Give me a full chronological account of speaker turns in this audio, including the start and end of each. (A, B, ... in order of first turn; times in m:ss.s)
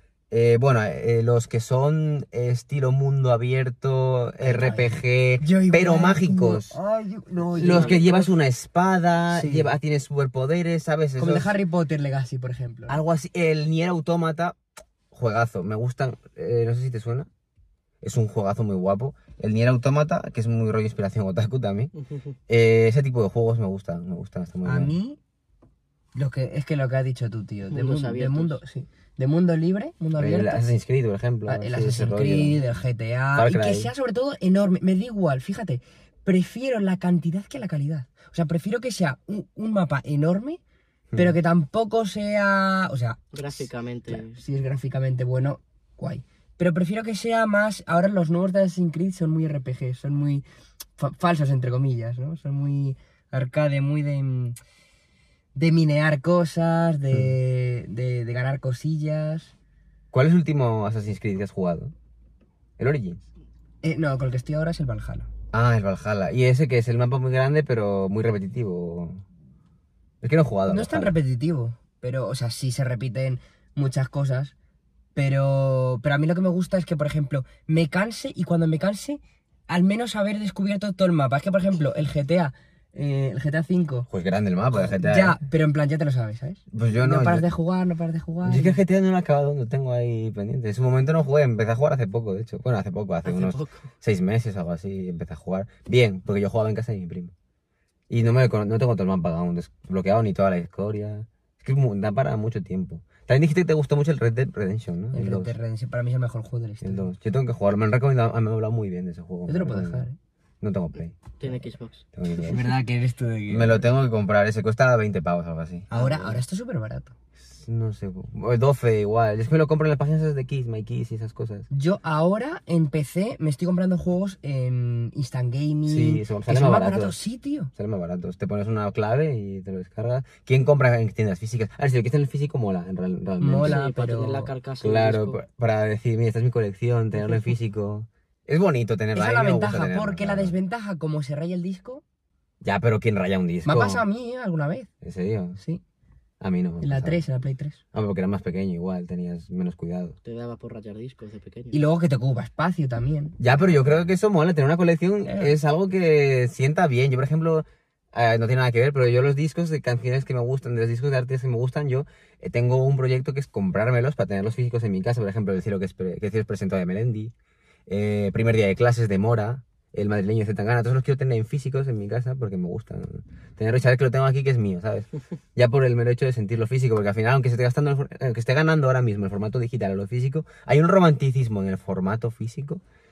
0:00.3-0:06.8 A
0:04.4-0:08.3 B
0:07.6-0:08.2 C
0:07.6-0:11.5 A
0:09.3-0:09.7 B
0:11.2-0:13.0 B
0:12.9-0:14.6 A
0:15.1-0:17.3 A
0:18.0-0:21.9 A
0:22.5-0:25.0 A
0:24.6-0:25.2 B
0:26.2-0:30.7 B
0:27.7-0:28.6 C
0:30.2-0:32.6 A
0:31.5-0:40.6 B
0:33.4-0:33.9 A
0:41.2-0:50.4 B
0:43.3-0:44.4 C
0:51.0-0:54.6 B
0:55.6-0:59.5 B
1:00.1-1:01.9 A
1:02.8-1:03.2 A
1:03.8-1:05.3 B
1:05.5-1:09.2 A
1:10.2-1:11.2 A
1:10.7-1:14.5 B
1:15.2-1:24.1 B
1:24.1-1:25.4 A
1:24.7-1:28.8 B
1:26.7-1:27.5 A
1:28.4-1:37.3 A
1:33.2-1:33.9 C
1:38.1-1:45.5 A
1:45.1-1:47.1 B
1:46.8-1:50.1 A
1:49.5-1:50.2 B
1:50.6-1:51.2 A
1:51.4-1:52.1 C
1:52.1-1:52.7 A
1:52.4-1:53.9 B
1:53.5-1:56.4 A
1:55.9-1:57.1 B
1:57.4-2:01.7 A
2:01.7-2:07.7 B
2:05.9-2:07.2 A
2:07.8-2:13.8 A
2:13.4-2:14.5 B
2:13.6-2:15.4 C
2:14.8-2:20.6 A
2:19.1-2:22.0 B
2:22.6-2:24.0 A
2:23.6-2:24.9 B
2:25.0-2:25.6 A
2:26.4-2:27.2 A
2:26.8-2:27.8 B
2:27.9-2:30.2 A
2:30.2-2:31.8 C
2:31.7-2:33.4 B
2:33.4-2:47.3 A
2:35.2-2:35.5 B
2:47.9-3:02.8 A